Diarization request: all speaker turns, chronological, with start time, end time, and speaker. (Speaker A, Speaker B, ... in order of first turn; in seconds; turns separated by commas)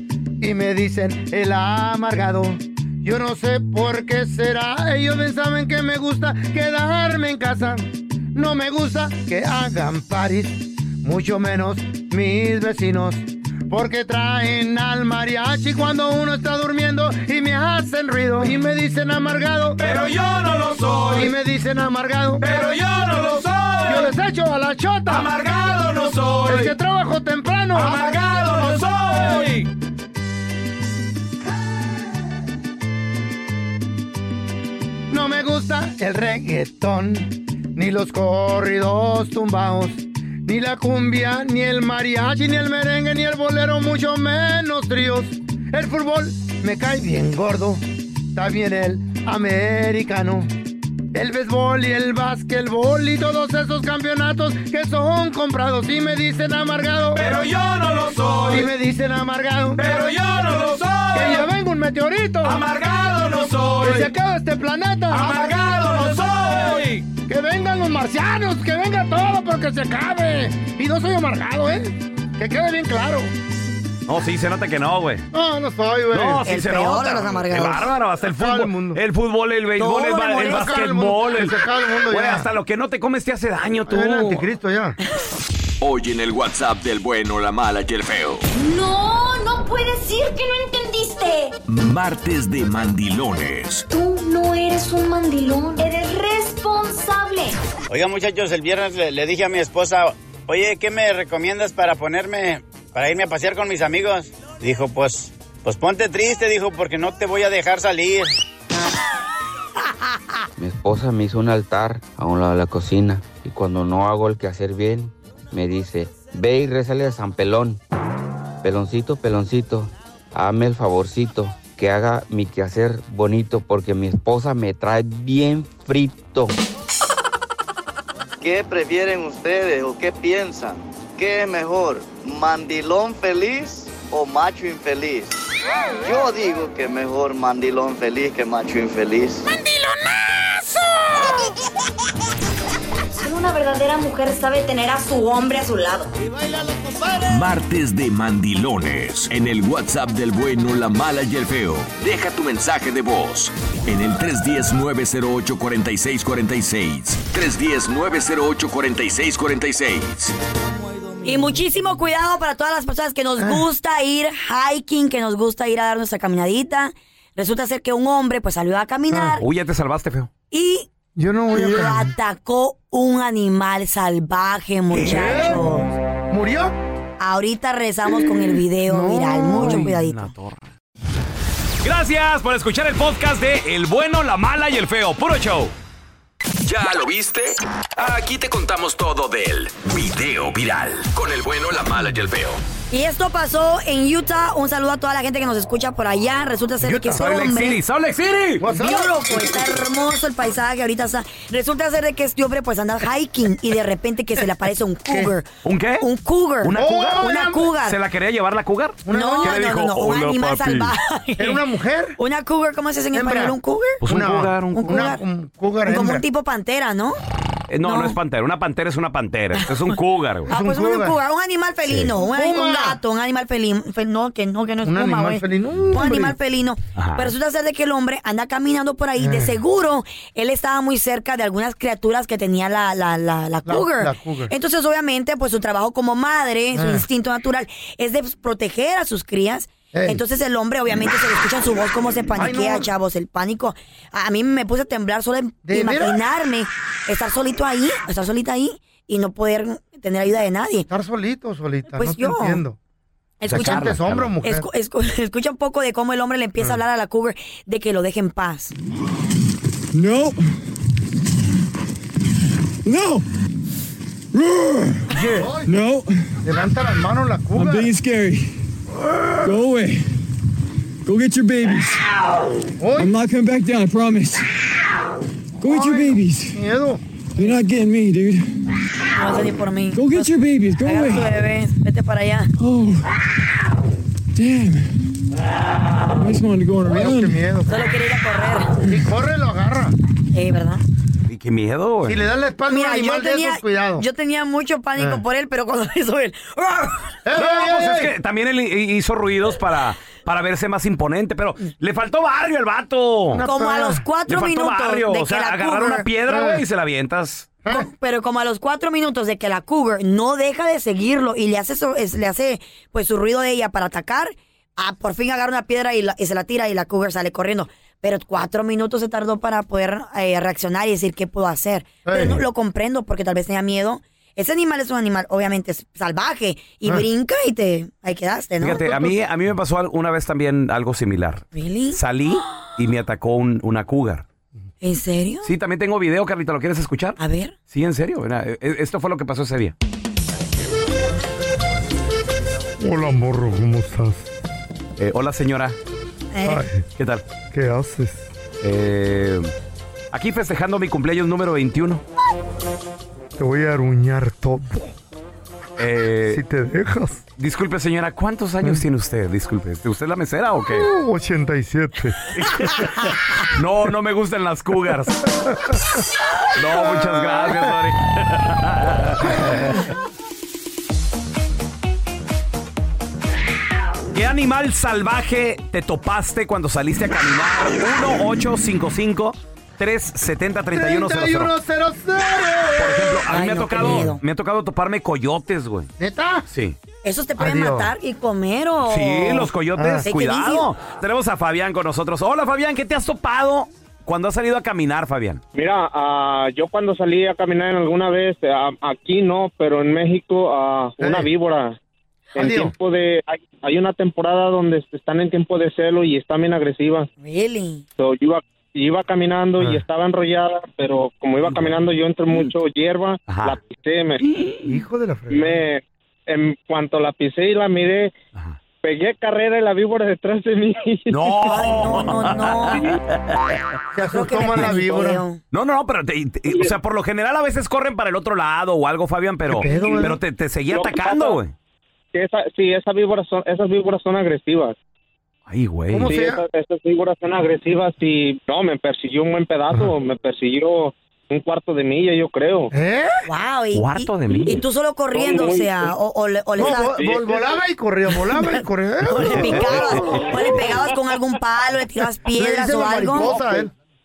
Speaker A: 0.4-19.8, Speaker B: 19.8-21.3, Speaker A: 21.0-22.4, Speaker B: 22.4-24.1, Speaker A: 23.8-25.3, Speaker B: 25.1-26.7, Speaker A: 26.4-28.1, Speaker B: 27.7-29.6, Speaker A: 35.1-47.8, Speaker A: 48.3-50.5, Speaker A: 51.1-57.3, Speaker B: 57.1-58.7, Speaker A: 58.5-59.9, Speaker B: 59.8-61.5, Speaker A: 61.1-62.6, Speaker B: 62.4-64.1, Speaker A: 63.7-73.3, Speaker B: 65.1-67.0, Speaker B: 74.1-75.2, Speaker A: 75.3-76.4, Speaker B: 76.1-81.5, Speaker C: 76.5-77.9, Speaker A: 78.3-79.0, Speaker C: 79.8-80.8, Speaker A: 80.3-82.5, Speaker B: 82.1-84.4, Speaker A: 83.9-85.0, Speaker D: 85.8-88.5, Speaker E: 88.5-91.5, Speaker D: 91.7-93.8, Speaker E: 93.9-97.6, Speaker F: 97.9-108.3, Speaker G: 110.6-117.8, Speaker G: 118.6-126.5, Speaker H: 128.4-135.3, Speaker H: 136.0-139.4, Speaker E: 143.2-146.0, Speaker A: 146.6-147.1, Speaker D: 147.3-160.3, Speaker C: 161.2-169.4, Speaker A: 163.4-163.7, Speaker B: 169.4-170.3, Speaker C: 170.5-170.9, Speaker A: 171.2-172.1, Speaker C: 171.5-175.9, Speaker A: 174.9-175.8, Speaker B: 174.9-175.4, Speaker A: 176.3-176.8, Speaker C: 177.2-180.3, Speaker A: 178.8-179.9, Speaker B: 179.6-180.7, Speaker B: 181.8-185.7, Speaker D: 186.6-192.6, Speaker C: 192.9-197.8, Speaker A: 196.8-197.2, Speaker B: 196.9-198.6, Speaker A: 198.6-199.3, Speaker C: 198.7-205.5, Speaker A: 205.1-205.3, Speaker B: 205.6-206.1, Speaker C: 206.0-208.0, Speaker B: 206.6-210.9, Speaker A: 206.7-207.7, Speaker A: 209.0-209.6, Speaker C: 209.1-211.6, Speaker A: 211.4-212.2, Speaker C: 212.2-214.0, Speaker A: 213.1-216.2, Speaker B: 214.0-214.9, Speaker C: 214.7-215.2, Speaker C: 215.8-217.2, Speaker B: 217.7-220.5, Speaker C: 217.8-218.2, Speaker C: 219.6-219.9, Speaker A: 220.5-221.2, Speaker C: 220.5-250.9, Speaker B: 221.9-222.1, Speaker A: 222.1-223.0, Speaker A: 224.8-226.4, Speaker B: 226.9-227.3, Speaker A: 229.2-229.6, Speaker A: 233.7-234.5, Speaker A: 236.7-237.1, Speaker A: 239.9-240.2, Speaker A: 242.3-242.9, Speaker A: 245.6-246.2, Speaker A: 250.9-252.8, Speaker C: 251.9-252.6, Speaker C: 253.4-258.7, Speaker B: 253.4-254.3, Speaker A: 253.5-254.7, Speaker I: 259.9-260.4, Speaker I: 262.8-263.2, Speaker I: 264.3-265.0, Speaker A: 265.1-265.7, Speaker I: 265.6-266.1, Speaker A: 266.4-267.9, Speaker I: 267.5-268.6, Speaker I: 269.4-270.1, Speaker I: 271.1-272.0, Speaker A: 272.8-273.2, Speaker I: 273.0-274.5, Speaker I: 275.6-276.6, Speaker A: 275.6-277.0, Speaker I: 277.4-278.5, Speaker C: 279.1-282.5, Speaker I: 279.9-281.2, Speaker I: 282.6-283.1, Speaker I: 284.4-284.9, Speaker I: 286.1-287.3, Speaker A: 286.8-287.7, Speaker C: 287.7-288.8, Speaker A: 288.8-289.9, Speaker C: 290.3-290.8, Speaker B: 291.3-292.2, Speaker A: 292.0-294.1, Speaker C: 292.7-297.0, Speaker A: 294.9-295.2, Speaker A: 297.2-298.1, Speaker B: 297.3-303.4, Speaker A: 303.3-304.0, Speaker C: 303.4-306.1, Speaker B: 304.3-307.5, Speaker A: 306.3-306.6, Speaker C: 307.7-329.0, Speaker A: 322.1-322.4, Speaker B: 328.6-334.2, Speaker A: 328.6-329.2, Speaker C: 331.5-332.0, Speaker C: 334.8-335.4, Speaker B: 335.4-339.7, Speaker C: 337.2-337.5, Speaker A: 342.8-344.3, Speaker B: 345.0-345.7, Speaker C: 346.3-346.6, Speaker A: 346.4-346.8, Speaker B: 346.9-347.2, Speaker A: 347.5-348.3, Speaker B: 348.6-349.5, Speaker B: 350.1-352.0, Speaker A: 353.4-354.9, Speaker B: 355.8-356.4, Speaker A: 356.3-357.2, Speaker B: 357.4-360.9, Speaker A: 360.7-362.3, Speaker B: 362.3-365.2, Speaker A: 365.4-365.8, Speaker B: 366.5-369.3, Speaker A: 366.7-367.7, Speaker A: 369.4-369.7, Speaker B: 374.1-381.5, Speaker A: 380.7-383.2, Speaker B: 382.8-385.9, Speaker C: 383.3-384.2, Speaker A: 383.8-384.1, Speaker A: 386.0-386.4, Speaker B: 386.5-386.8, Speaker C: 387.0-389.5, Speaker A: 387.4-387.9, Speaker B: 388.9-395.4, Speaker A: 389.8-390.1, Speaker C: 390.0-390.7, Speaker J: 395.5-401.8, Speaker A: 401.0-401.3, Speaker J: 402.4-407.1, Speaker A: 402.4-402.7, Speaker C: 407.2-407.8, Speaker J: 408.0-414.2, Speaker A: 409.6-409.8, Speaker B: 411.5-411.7, Speaker B: 413.3-413.6, Speaker A: 414.6-415.6, Speaker J: 415.3-418.1, Speaker J: 418.8-421.6, Speaker B: 421.1-423.0, Speaker C: 421.4-422.9, Speaker A: 423.9-425.2, Speaker C: 424.1-425.4, Speaker B: 425.5-431.5, Speaker J: 426.5-426.7, Speaker A: 429.5-430.2, Speaker J: 429.6-430.1, Speaker J: 430.7-431.4, Speaker J: 432.1-434.8, Speaker B: 435.5-436.1, Speaker A: 435.9-436.4, Speaker J: 436.1-442.7, Speaker A: 442.7-443.2, Speaker C: 443.2-447.0, Speaker B: 443.7-444.6, Speaker J: 445.1-445.9, Speaker A: 446.6-450.3, Speaker J: 446.7-447.6, Speaker C: 448.3-453.4, Speaker A: 452.3-453.7, Speaker J: 453.2-453.6